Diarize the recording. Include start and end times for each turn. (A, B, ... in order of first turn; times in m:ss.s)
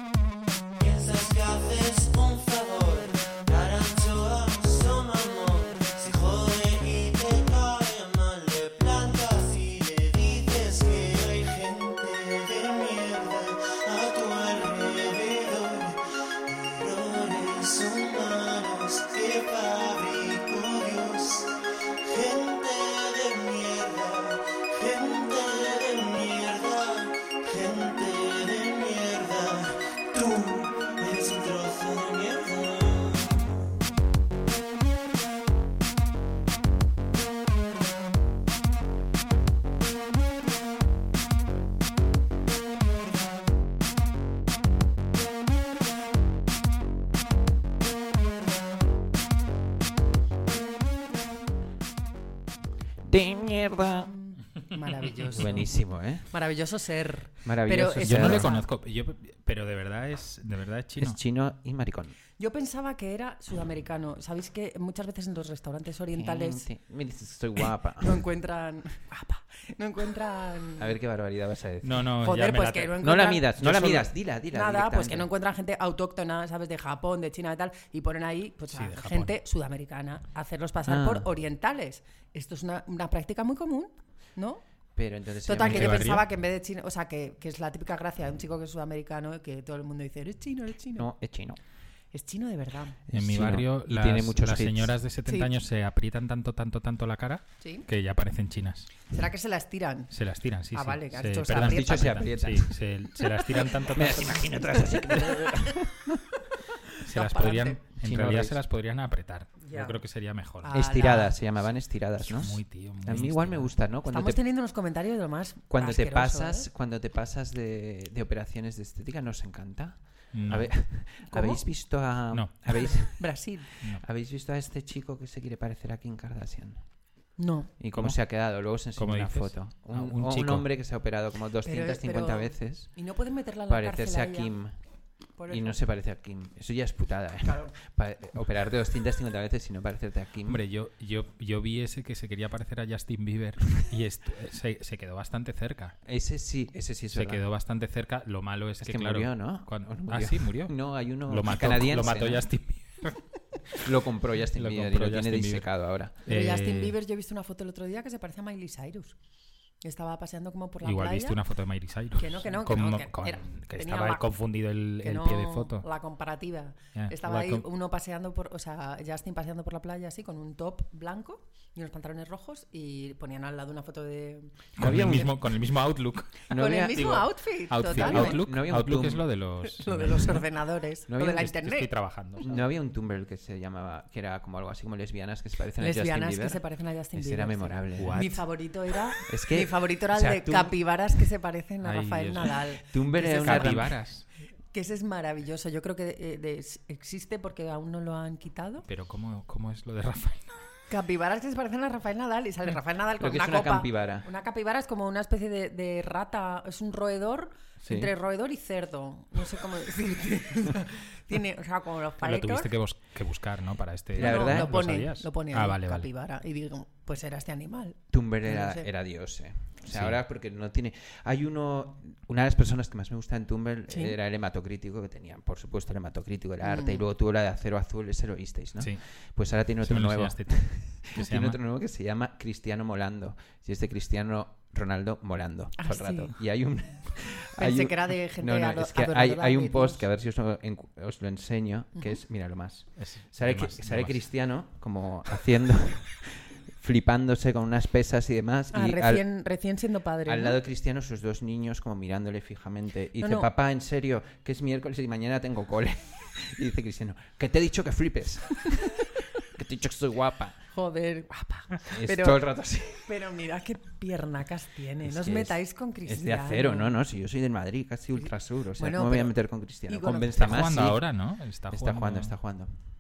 0:00.8-0:33.6 A
0:53.0-0:54.1 B
0:54.3-0:58.7 C
0:55.4-0:56.3 B
0:57.4-0:58.5 B
0:58.0-1:01.2 D
1:01.0-1:02.1 B
1:02.4-1:06.7 C
1:06.1-1:08.2 B
1:08.0-1:10.9 C
1:10.8-1:12.1 B
1:11.8-1:13.0 D
1:12.2-1:24.6 C
1:13.0-1:15.3 B
1:18.7-1:19.4 D
1:20.8-1:21.3 B
1:25.0-1:26.2 B
1:25.4-1:31.1 C
1:25.6-1:26.2 D
1:30.9-1:31.6 B
1:32.1-1:33.0 C
1:33.1-1:35.0 B
1:33.1-1:39.0 D
1:35.2-1:35.5 C
1:37.6-1:37.8 C
1:39.0-1:40.1 C
1:40.1-1:44.5 D
1:40.7-1:42.3 C
1:41.5-1:46.2 B
1:47.0-1:50.7 D
1:47.1-1:47.8 C
1:48.0-1:48.6 B
1:49.6-1:50.0 C
1:50.6-1:51.4 C
1:50.7-1:54.4 B
1:52.3-1:53.7 D
1:54.0-1:56.7 C
1:55.7-2:06.9 B
2:00.3-2:00.9 D
2:01.3-2:01.6 C
2:02.3-2:03.2 D
2:02.7-2:03.6 C
2:07.4-2:07.8 C
2:07.8-2:12.9 B
2:09.0-2:10.7 D
2:11.6-2:14.5 C
2:13.7-2:14.8 B
2:15.3-2:15.8 C
2:15.5-2:20.6 B
2:17.4-2:17.7 C
2:20.5-2:26.0 D
2:26.0-2:27.4 B
2:27.1-2:33.2 D
2:28.8-2:32.5 B
2:33.8-2:36.2 B
2:34.5-2:35.7 D
2:36.2-2:36.9 D
2:36.2-2:39.1 C
2:39.8-2:41.4 C
2:40.8-2:45.8 D
2:42.2-2:44.3 C
2:45.0-2:55.3 C
2:46.9-2:47.7 D
2:54.8-2:55.3 B
2:54.8-3:00.4 D
2:56.5-2:57.2 B
2:56.5-2:58.4 C
2:57.9-2:59.4 B
2:59.6-3:01.9 C
3:01.1-3:01.5 B
3:01.3-3:02.6 D
3:02.4-3:06.6 B
3:05.8-3:13.9 C
3:07.1-3:08.3 B
3:08.0-3:08.4 D
3:09.2-3:10.9 B
3:11.8-3:12.6 D
3:12.9-3:14.0 B
3:13.4-3:14.2 D
3:14.7-3:18.8 C
3:18.9-3:20.5 D
3:20.9-3:32.7 C
3:23.2-3:24.2 B
3:27.8-3:28.1 B
3:32.2-3:36.1 D
3:34.2-3:34.8 B
3:34.2-3:38.9 C
3:38.1-4:09.2 B
3:39.9-3:40.2 D
3:43.9-3:44.2 C
3:46.6-3:47.0 C
3:49.8-3:51.6 D
3:55.8-3:56.3 C
3:57.6-4:00.0 C
4:03.0-4:04.2 D
4:08.7-4:10.6 C
4:10.2-4:20.6 B
4:13.2-4:13.5 C
4:20.7-4:22.4 C
4:21.9-4:23.1 B
4:23.0-4:27.0 C
4:25.0-4:31.0 B
4:28.1-4:30.4 C
4:30.4-4:32.3 D
4:31.7-4:32.7 B